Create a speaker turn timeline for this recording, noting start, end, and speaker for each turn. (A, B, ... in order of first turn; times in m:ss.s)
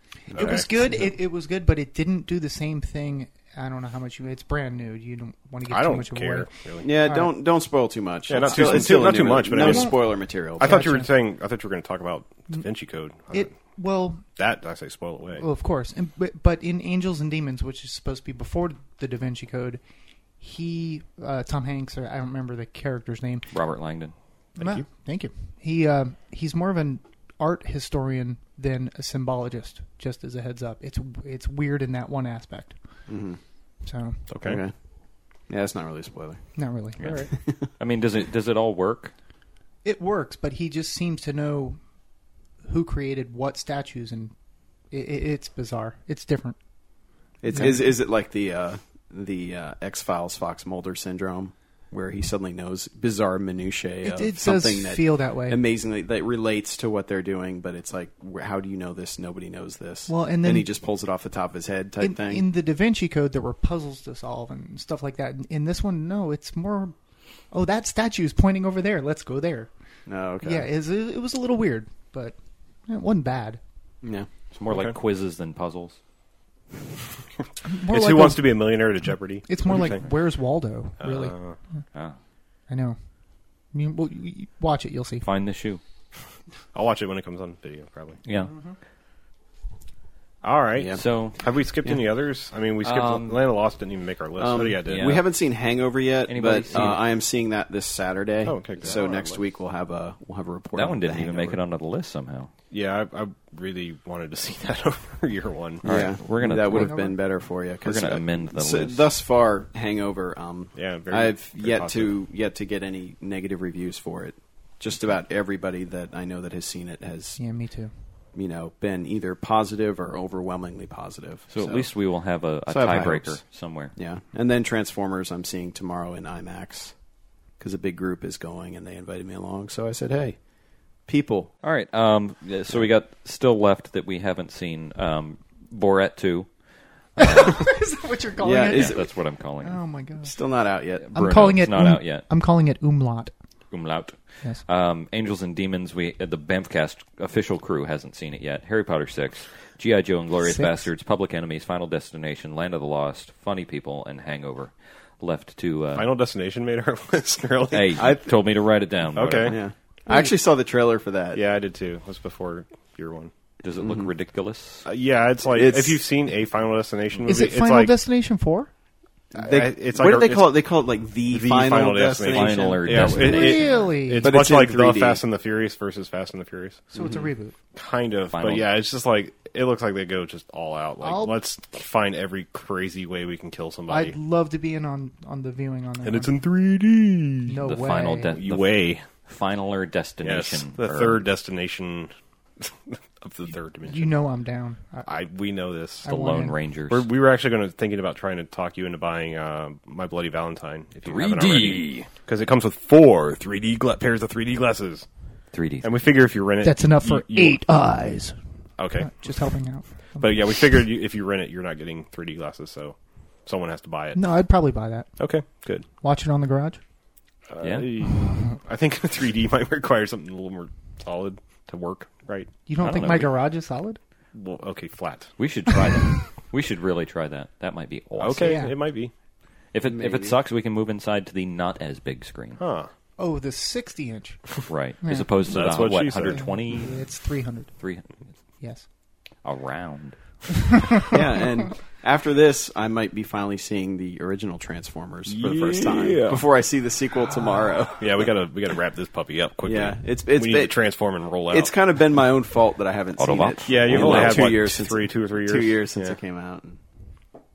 0:00.3-0:07.3 A
0:00.3-0:00.7 B
0:05.7-0:06.9 B
0:06.8-0:10.7 C
0:08.3-0:13.5 B
0:08.4-0:11.1 A
0:13.3-0:14.2 A
0:14.4-0:15.4 B
0:15.4-0:19.8 A
0:20.4-0:23.5 A
0:23.5-0:24.1 D
0:24.6-0:32.8 A
0:33.1-0:33.4 C
0:33.8-0:34.2 A
0:34.3-0:34.6 B
0:34.4-0:34.7 C
0:35.4-0:36.4 C
0:36.6-0:37.2 A
0:37.0-0:39.1 D
0:39.8-0:41.8 A
0:42.6-0:44.3 A
0:44.9-0:46.6 A
0:47.4-1:02.4 C
0:47.5-0:47.8 A
0:54.0-0:55.6 A
1:00.1-1:00.7 A
1:02.0-1:06.9 A
1:07.5-1:09.7 A
1:10.1-1:10.7 C
1:10.4-1:12.3 A
1:12.9-1:13.6 A
1:14.0-1:14.3 C
1:14.5-1:16.0 D
1:14.7-1:15.0 B
1:17.6-1:21.6 A
1:17.9-1:20.0 B
1:21.0-1:21.6 B
1:22.7-1:23.0 A
1:23.7-1:25.2 A
1:25.2-1:25.8 D
1:26.7-1:28.2 B
1:28.2-1:28.5 D
1:28.5-1:28.7 A
1:30.4-1:35.2 B
1:30.8-1:31.0 C
1:30.9-1:31.4 D
1:32.8-1:33.4 D
1:34.4-1:41.6 C
1:34.9-1:35.2 D
1:36.3-1:37.0 D
1:38.4-1:39.3 B
1:38.8-1:39.3 D
1:40.7-1:42.5 D
1:42.7-1:45.9 B
1:45.8-1:57.4 C
1:45.8-1:47.1 D
1:46.6-1:47.2 A
1:47.8-1:49.0 D
1:50.7-1:52.1 B
1:57.4-1:57.9 A
1:58.3-2:01.9 C
2:01.5-2:03.9 D
2:02.7-2:03.4 C
2:03.9-2:07.0 C
2:07.6-2:10.4 C
2:11.1-2:11.5 C
2:11.6-2:16.5 D
2:17.1-2:17.7 D
2:17.2-2:20.4 A
2:18.4-2:19.1 C
2:18.7-2:19.8 D
2:20.2-2:21.4 C
2:21.0-2:22.2 D
2:21.1-2:23.3 A
2:23.7-2:36.1 D
2:30.4-2:30.8 A
2:35.9-2:38.1 B
2:37.7-2:39.6 D
2:38.0-2:38.4 C
2:39.1-2:39.6 B
2:39.5-2:41.4 C
2:40.1-2:40.3 A
2:41.3-2:43.3 B
2:43.6-2:44.9 D
2:43.8-2:44.1 C
2:44.8-2:47.9 B
2:45.5-2:46.0 C
2:47.2-2:48.7 A
2:49.3-2:53.6 C
2:49.4-2:50.6 B
2:51.3-2:56.9 B
2:52.3-2:53.9 D
2:53.0-2:54.3 A
2:54.2-2:55.2 C
2:56.9-2:57.3 C
2:56.9-2:57.5 A
2:57.7-3:04.2 B
2:58.3-2:58.7 D
3:01.0-3:01.4 A
3:03.9-3:06.3 A
3:06.0-3:07.6 B
3:07.5-3:08.4 A
3:07.6-3:11.2 D
3:08.3-3:09.0 B
3:10.2-3:14.2 B
3:13.9-3:15.1 A
3:15.0-3:16.1 B
3:16.0-3:16.6 A
3:16.0-3:17.1 D
3:16.9-3:25.1 B
3:21.0-3:22.1 D
3:25.5-3:25.9 D
3:25.8-3:27.6 B
3:26.6-3:28.4 A
3:28.8-3:29.1 B
3:29.0-3:30.6 A
3:30.2-3:34.2 B
3:34.1-3:36.8 A
3:35.2-3:35.8 B
3:37.5-3:42.5 B
3:37.6-3:37.9 D
3:42.7-3:44.0 A
3:42.8-3:43.3 D
3:44.3-3:45.4 B
3:45.4-3:48.6 D
3:48.2-3:49.1 B
3:48.4-3:48.8 A
3:49.7-3:52.6 D
3:49.8-3:50.4 C
3:52.6-3:52.9 B
3:53.2-3:55.4 A
3:54.7-3:57.1 D
3:55.5-3:56.5 B
3:56.3-3:57.9 A
3:57.8-3:58.3 D
3:58.6-3:58.9 A
3:59.4-4:00.4 D
4:01.1-4:08.3 C
4:05.3-4:06.4 B
4:08.0-4:11.7 B
4:09.6-4:10.8 C
4:11.5-4:16.8 C
4:13.2-4:14.6 D
4:13.6-4:16.2 B